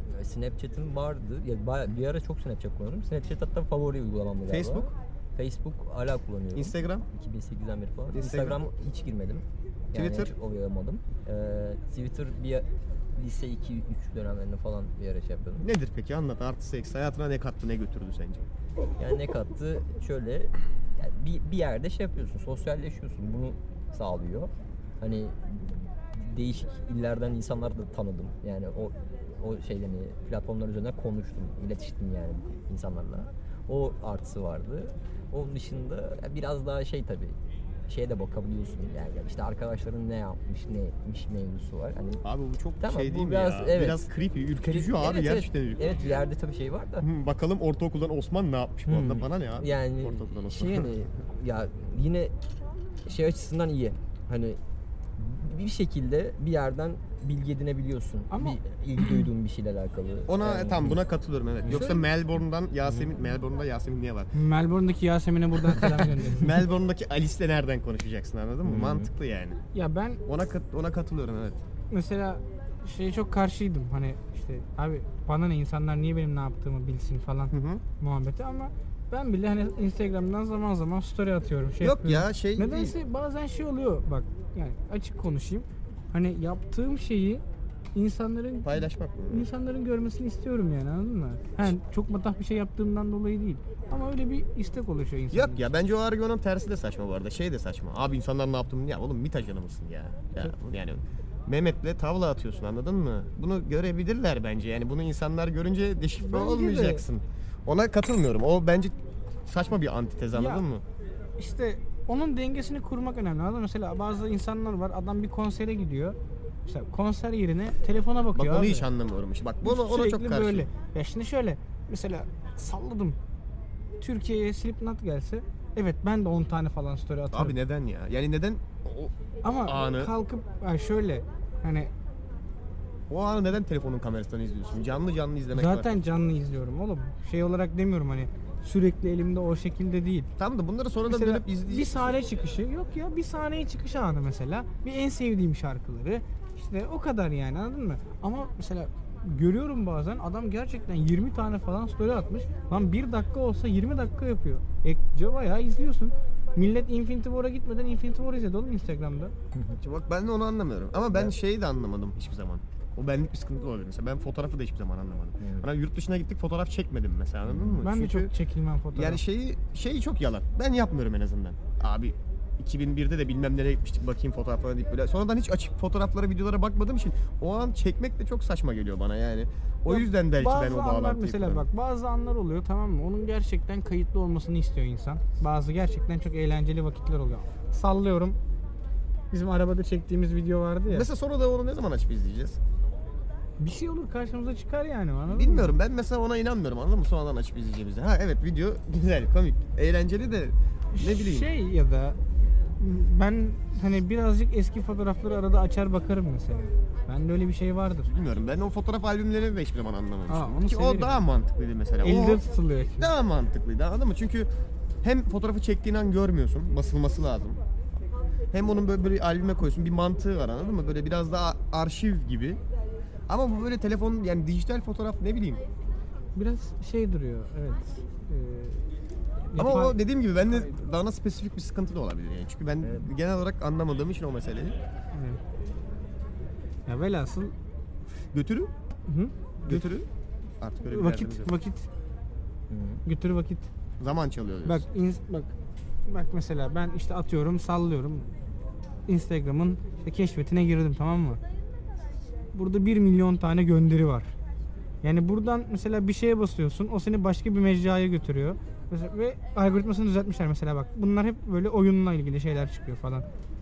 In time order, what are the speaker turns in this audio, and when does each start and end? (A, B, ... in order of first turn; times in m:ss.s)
0:00.1-0:15.7 A
0:04.5-0:04.9 B
0:06.5-0:07.0 B
0:08.1-0:08.6 B
0:09.9-0:10.3 B
0:15.6-0:18.5 B
0:19.0-0:37.4 A
0:37.9-0:42.2 A
0:42.2-0:46.2 B
0:42.8-0:44.1 A
0:44.6-0:47.1 A
0:47.0-0:51.0 B
0:48.9-0:52.3 A
0:53.0-0:54.6 A
0:55.2-1:01.0 A
0:58.3-0:59.2 C
1:00.3-1:04.3 B
1:01.6-1:02.0 A
1:04.3-1:06.6 C
1:05.7-1:09.6 B
1:08.6-1:09.1 A
1:09.7-1:10.2 C
1:10.2-1:11.6 B
1:11.9-1:27.4 C
1:17.5-1:17.8 B
1:21.8-1:23.0 B
1:27.9-1:35.7 C
1:28.6-1:29.5 B
1:35.3-1:48.9 B
1:46.2-1:47.0 C
1:49.4-1:50.8 B
1:50.3-1:50.6 C
1:51.4-1:58.8 C
1:58.3-2:00.7 B
1:59.6-2:03.2 C
2:04.0-2:07.5 C
2:07.3-2:09.1 B
2:09.4-2:11.9 C
2:09.6-2:10.1 B
2:13.1-2:16.0 B
2:15.5-2:20.3 C
2:20.4-2:22.1 B
2:21.1-2:39.3 C
2:39.5-2:39.8 A
2:39.8-2:48.3 B
2:45.4-2:45.7 A
2:47.4-2:47.8 A
2:47.8-2:49.2 C
2:48.9-3:01.7 B
2:59.9-3:08.4 C
3:09.3-3:11.1 C
3:10.9-3:12.6 B
3:13.6-3:15.8 C
3:15.3-3:21.5 B
3:20.9-3:22.2 C
3:22.8-3:28.1 C
3:28.1-3:32.4 B
3:30.3-3:31.1 C
3:32.0-3:33.1 C
3:33.0-3:34.5 B
3:35.0-3:37.6 B
3:38.5-3:42.6 B
3:43.3-3:45.6 B
3:46.4-3:48.8 C
3:49.5-3:50.6 C
3:49.6-3:54.8 B
3:52.8-3:53.1 A
3:55.1-3:55.4 C
3:56.8-3:57.5 C
3:58.3-3:58.7 B
3:59.1-3:59.9 C
3:59.6-4:00.1 B
4:00.6-4:01.6 B
4:00.9-4:01.9 C
4:02.7-4:03.0 A
4:03.0-4:03.7 C
4:04.0-4:04.8 B
4:04.6-4:05.5 C
4:06.0-4:08.3 C
4:09.1-4:11.4 C
4:12.5-4:14.3 C
4:15.0-4:23.2 C